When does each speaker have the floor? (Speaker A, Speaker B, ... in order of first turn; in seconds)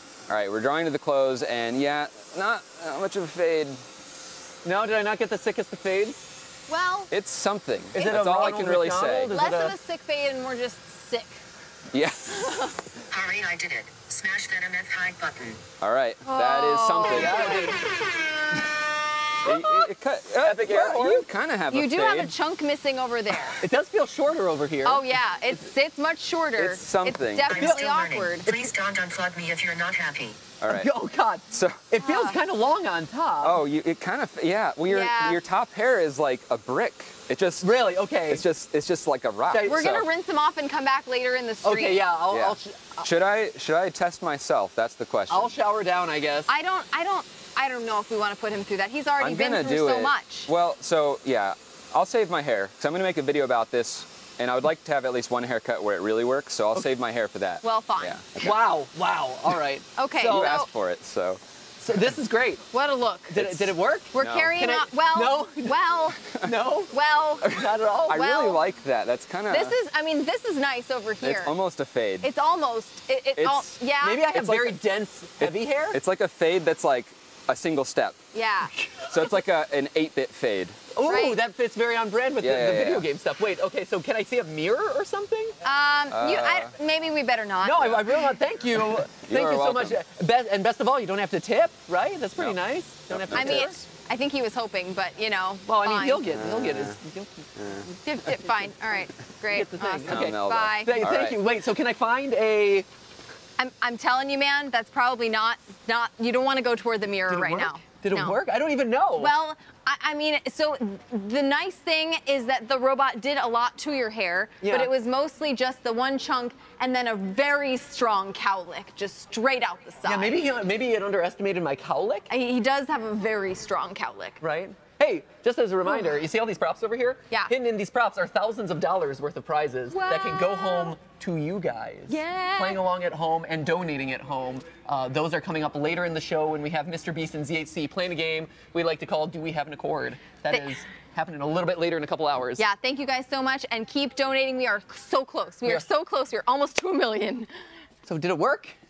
Speaker A: 0.3-3.8, 7.1-9.3, 11.9-12.6, 15.8-17.7, 19.4-22.4, 26.6-27.5, 30.6-30.9, 31.5-31.8, 33.4-37.8, 38.3-40.0, 42.3-45.5, 49.2-58.5, 60.2-61.4, 63.4-64.6, 67.5-69.8, 71.2-72.3, 73.4-73.8, 74.3-74.8, 75.4-78.2, 79.1-80.8, 82.4-83.1, 86.1-86.8, 89.2-90.0, 93.1-93.9, 96.3-97.0, 97.6-97.9, 100.1-101.4
Speaker B: 4.6-6.3, 7.9-9.8, 17.0-17.8, 19.5-19.8, 20.4-21.3, 23.6-25.2, 27.6-27.9, 28.4-28.7, 30.7-33.6, 37.6-38.5, 39.5-39.9, 41.6-43.1, 45.3-46.5, 58.4-60.6, 61.8-62.6, 63.3-68.3, 74.0-76.0, 80.9-85.6, 87.6-93.8, 95.7-98.6, 99.5-102.9, 107.3-109.3, 114.6-114.9, 120.1-122.3, 124.4-142.6, 148.1-148.8
Speaker C: 6.7-7.1, 7.9-8.4, 9.3-11.4, 12.4-12.7, 16.2-17.8, 21.7-23.6, 24.8-28.5, 32.0-32.4, 34.9-35.4, 39.6-42.1, 46.5-50.5, 57.6-58.2, 60.0-60.7, 62.7-63.6, 64.1-66.3, 66.9-68.6, 69.5-71.5, 72.2-74.3, 78.3-78.7, 81.1-81.4, 85.6-88.1, 93.3-96.3, 98.0-101.1, 103.6-108.4, 109.2-120.4, 122.3-124.4, 125.8-126.2, 129.9-131.0, 132.1-132.8, 142.6-147.5
Speaker D: 13.1-15.6, 27.5-30.4